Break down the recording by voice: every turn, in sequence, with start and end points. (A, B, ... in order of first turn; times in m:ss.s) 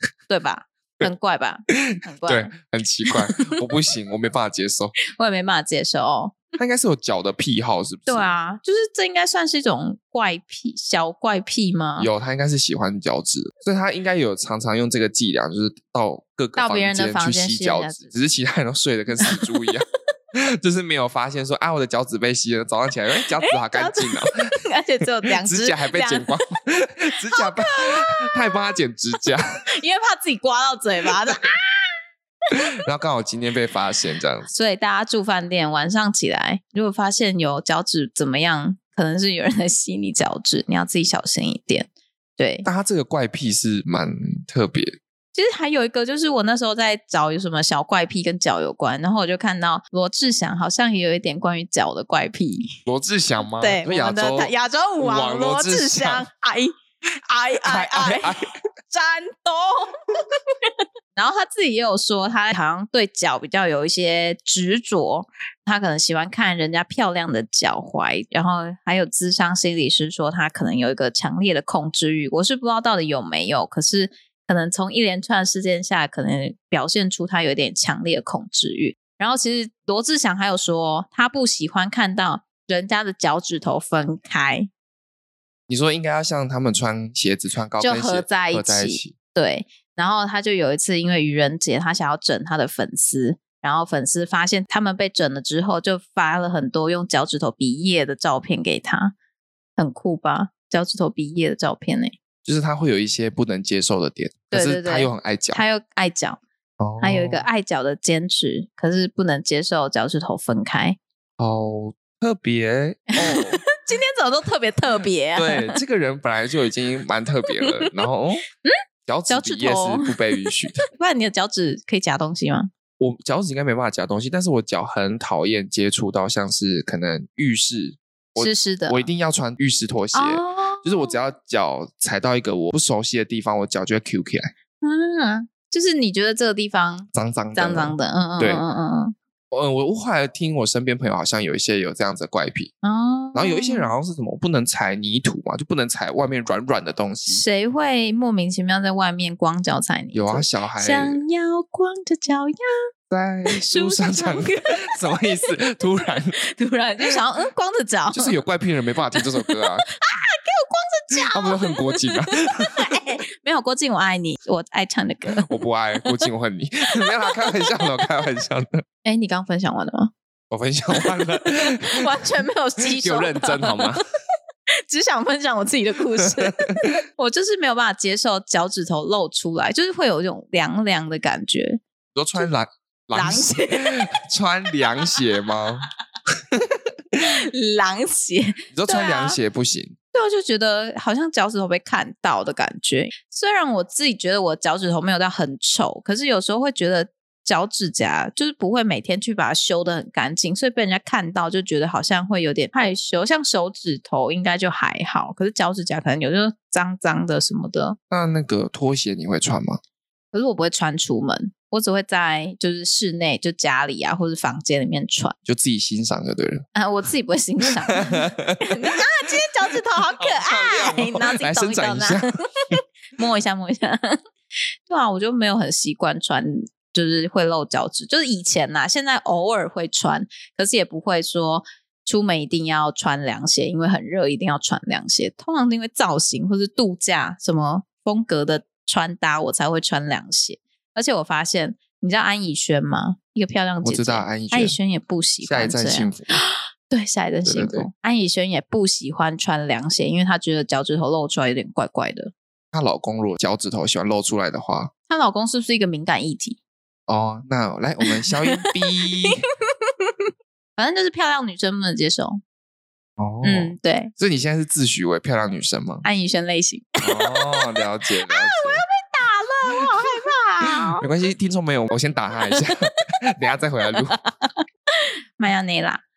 0:00.3-0:02.5 A
0:01.7-0:05.0 B
0:03.1-0:03.4 A
0:05.0-0:06.6 A
0:06.6-0:08.3 B
0:08.1-0:12.1 A
0:12.0-0:24.5 B
0:16.6-0:18.1 A
0:19.2-0:19.7 A
0:23.4-0:26.3 A
0:25.2-0:29.6 B
0:27.3-0:28.4 A
0:29.7-0:31.9 A
0:32.5-0:34.5 B
0:34.5-0:42.6 A
0:42.6-0:45.0 B
0:45.3-0:52.8 A
0:52.8-0:56.2 B
0:53.5-0:58.4 A
0:57.6-0:58.5 B
0:58.9-1:24.7 A
1:25.7-1:29.1 B
1:27.8-1:39.1 A
1:39.8-1:42.1 A
1:42.4-1:45.6 B
1:44.5-1:46.4 A
1:46.8-1:47.4 B
1:47.0-1:51.0 A
1:51.4-1:53.6 B
1:53.2-1:55.8 A
1:55.3-1:58.4 B
1:59.1-2:00.8 B
1:59.3-2:00.2 A
2:00.8-2:02.7 A
2:03.0-2:14.5 B
2:08.4-2:09.0 A
2:10.1-2:11.2 A
2:14.8-2:19.1 A
2:17.1-2:18.6 B
2:19.5-2:22.7 B
2:22.8-2:23.9 A
2:23.3-2:27.4 B
2:27.3-2:32.7 A
2:30.1-2:31.2 B
2:33.1-2:36.4 B
2:33.5-2:35.2 A
2:36.4-2:38.4 A
2:38.1-2:39.9 B
2:39.1-2:45.5 A
2:41.3-2:42.9 B
2:45.3-2:48.8 B
2:47.0-2:48.0 A
2:49.0-2:50.1 A
2:50.5-2:52.2 B
2:50.9-2:54.0 A
2:52.9-2:54.0 B
2:54.7-3:01.8 A
2:56.2-2:56.9 B
3:02.1-3:05.9 B
3:03.1-3:04.1 A
3:06.5-3:07.2 B
3:07.2-3:09.4 A
3:08.7-3:09.9 B
3:10.1-3:28.0 A
3:28.1-3:29.8 B
3:30.3-3:35.3 A
3:35.4-3:36.6 B
3:36.7-3:44.2 A
3:37.6-3:39.0 B
3:40.1-3:42.8 B
3:44.9-4:12.3 A
4:03.8-4:04.8 B
4:05.4-4:06.4 B
4:07.4-4:07.9 B
4:12.7-4:14.9 B
4:15.1-4:16.6 A
4:17.1-4:19.4 B
4:18.3-4:22.4 A
4:23.2-4:26.0 B
4:23.4-4:24.1 A
4:26.0-4:27.7 A
4:27.0-4:28.8 B
4:28.3-4:31.0 A
4:30.6-4:34.2 B
4:34.4-4:36.0 A